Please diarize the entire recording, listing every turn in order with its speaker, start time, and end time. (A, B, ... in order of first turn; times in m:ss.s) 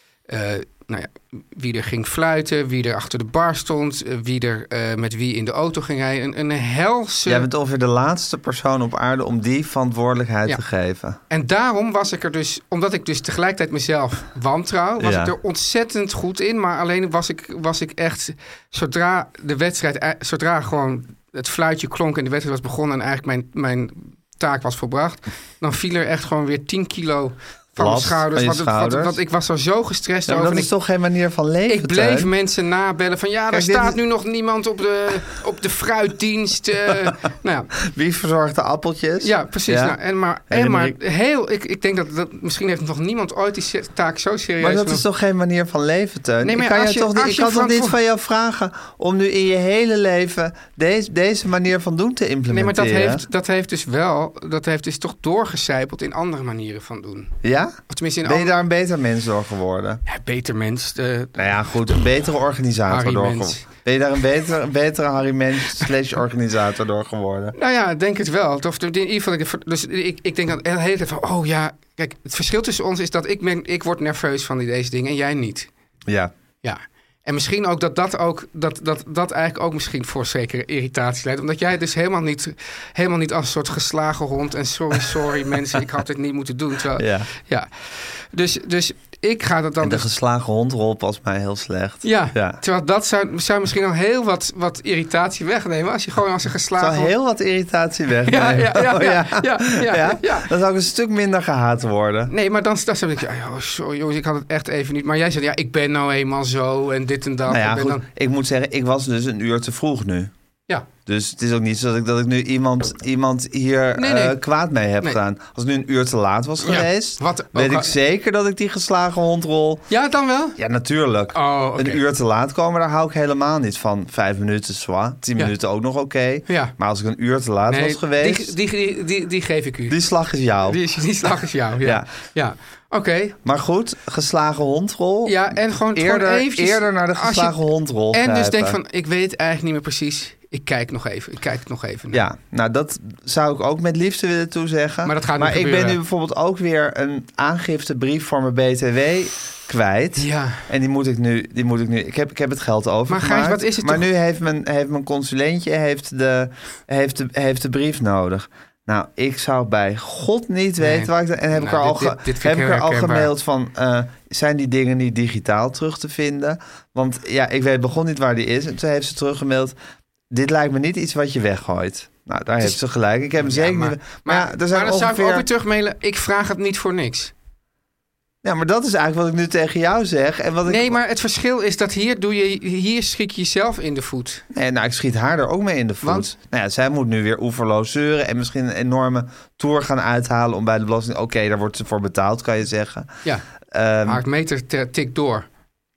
0:00.3-0:07.5 A
0:07.2-0:11.2 B
0:11.3-0:30.7 A
0:15.0-0:15.3 B
0:27.8-0:29.2 B
0:30.3-0:32.3 B
0:31.7-0:37.7 A
0:33.5-0:34.0 B
0:37.8-0:40.0 B
0:39.2-0:45.0 A
0:40.5-0:41.0 B
0:44.6-0:53.2 B
0:46.4-0:48.0 A
0:52.5-0:57.3 A
0:57.4-1:00.0 B
0:57.9-0:58.6 A
1:00.1-1:01.7 A
1:01.4-1:07.5 B
1:02.9-1:03.6 A
1:07.5-1:15.7 A
1:16.1-1:16.3 B
1:16.6-1:30.0 A
1:27.0-1:27.3 B
1:29.8-1:32.6 B
1:32.0-1:37.1 A
1:36.8-1:42.3 B
1:38.3-1:40.5 A
1:42.3-1:48.0 A
1:47.5-1:50.3 B
1:51.0-1:59.8 B
1:54.0-1:54.4 A
1:56.6-1:57.9 A
1:59.9-2:00.6 A
2:00.6-2:08.5 B
2:01.3-2:02.0 A
2:06.5-2:06.7 A
2:07.7-2:10.0 A
2:09.9-2:10.8 B
2:10.6-2:13.4 A
2:11.8-2:12.1 B
2:13.4-2:18.8 B
2:15.2-2:17.6 A
2:18.1-2:22.2 A
2:22.1-2:49.8 B
2:25.0-2:26.0 A
2:30.2-2:30.7 A
2:33.1-2:34.0 A
2:40.8-2:43.3 A
2:50.3-2:55.5 B
2:53.4-2:57.3 A
2:58.4-3:01.0 B
3:00.6-3:04.4 A
3:04.5-3:13.1 B
3:06.0-3:06.3 A
3:13.7-3:14.2 B
3:14.0-3:15.4 A